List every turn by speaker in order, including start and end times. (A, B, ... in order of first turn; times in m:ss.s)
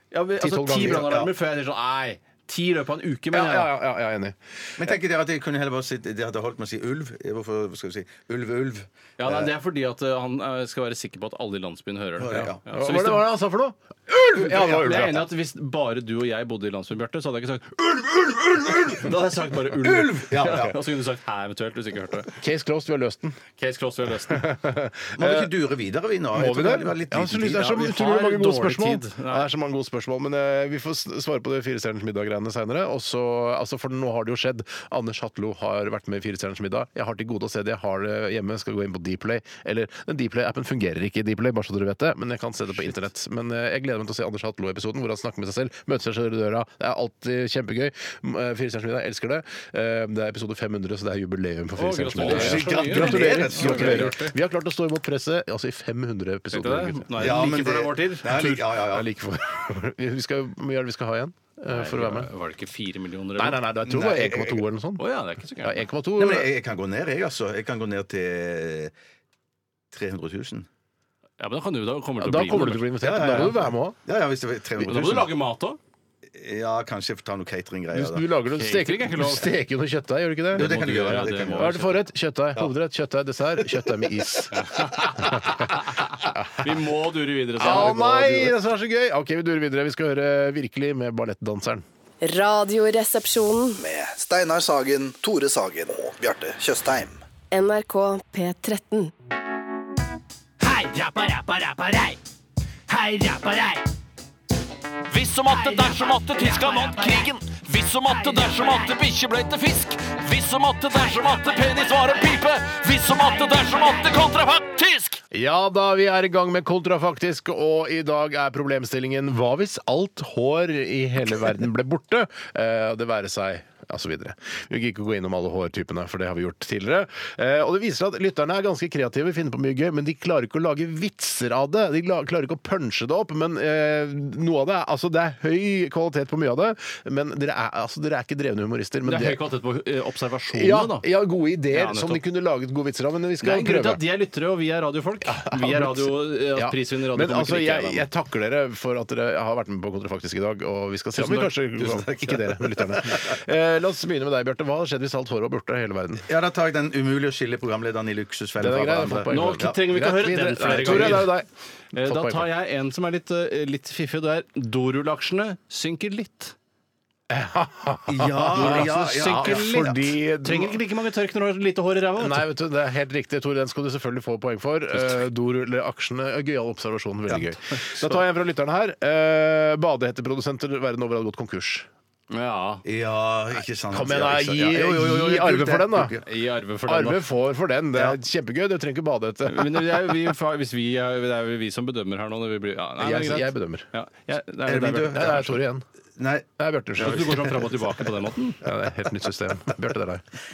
0:00.1-0:03.7 A
0:00.4-0:01.1 B
0:00.8-0:01.3 C
0:03.3-0:04.9 B
0:04.8-0:09.5 C
0:09.2-0:13.3 A
0:12.2-0:12.6 C
0:12.3-0:15.3 B
0:14.4-0:22.3 A
0:19.8-0:20.8 C
0:22.3-0:23.4 B
0:23.6-0:24.5 A
0:24.3-0:25.5 B
0:25.2-0:28.0 C
0:26.3-0:57.5 B
0:27.7-0:29.5 A
0:51.8-0:54.4 A
0:52.2-0:54.2 C
0:56.5-0:58.7 A
0:57.2-0:59.1 C
0:58.8-1:02.3 B
1:01.7-1:03.6 A
1:03.4-1:05.0 B
1:03.8-1:04.6 C
1:05.0-1:05.8 A
1:05.6-1:06.5 B
1:06.2-1:08.9 C
1:09.9-1:10.7 C
1:11.4-1:13.4 A
1:12.2-1:14.0 B
1:13.0-1:15.3 C
1:14.8-1:15.8 A
1:16.3-1:18.3 C
1:17.9-1:25.6 B
1:18.6-1:19.5 A
1:20.5-1:21.8 C
1:20.5-1:22.0 A
1:23.6-1:24.0 C
1:24.5-1:28.5 A
1:26.2-1:26.7 B
1:27.6-1:31.8 B
1:32.2-1:33.8 D
1:33.8-1:37.2 E
1:37.5-1:39.1 D
1:40.6-1:42.2 F
1:42.9-1:43.9 F
1:45.1-1:47.4 F
1:45.1-1:55.2 A
1:48.0-1:49.1 F
1:50.9-1:54.4 F
1:55.3-2:19.4 B
2:19.0-2:21.1 A
2:20.5-2:24.0 B
2:21.7-2:22.2 A
2:23.4-2:28.1 A
2:25.2-2:36.3 B
2:31.2-2:32.3 A
2:31.9-2:33.2 C
2:36.3-2:39.8 C
2:38.6-2:42.5 B
2:39.3-2:41.4 A
2:40.9-2:41.1 C
2:41.9-2:46.6 A
2:47.3-2:50.8 B
2:48.1-2:50.0 C
2:48.6-2:52.5 A
2:52.2-3:01.9 B
2:57.4-2:58.2 A
3:02.3-3:02.8 A
3:02.8-3:06.2 C
3:03.9-3:06.2 B
3:06.2-3:07.3 A
3:06.9-3:10.2 B
3:09.5-3:15.3 A
3:13.0-3:13.9 B
3:14.7-3:15.6 C
3:15.1-3:15.8 B
3:16.2-3:16.5 C
3:16.6-3:17.6 B
3:17.0-3:18.6 A
3:18.6-3:20.2 B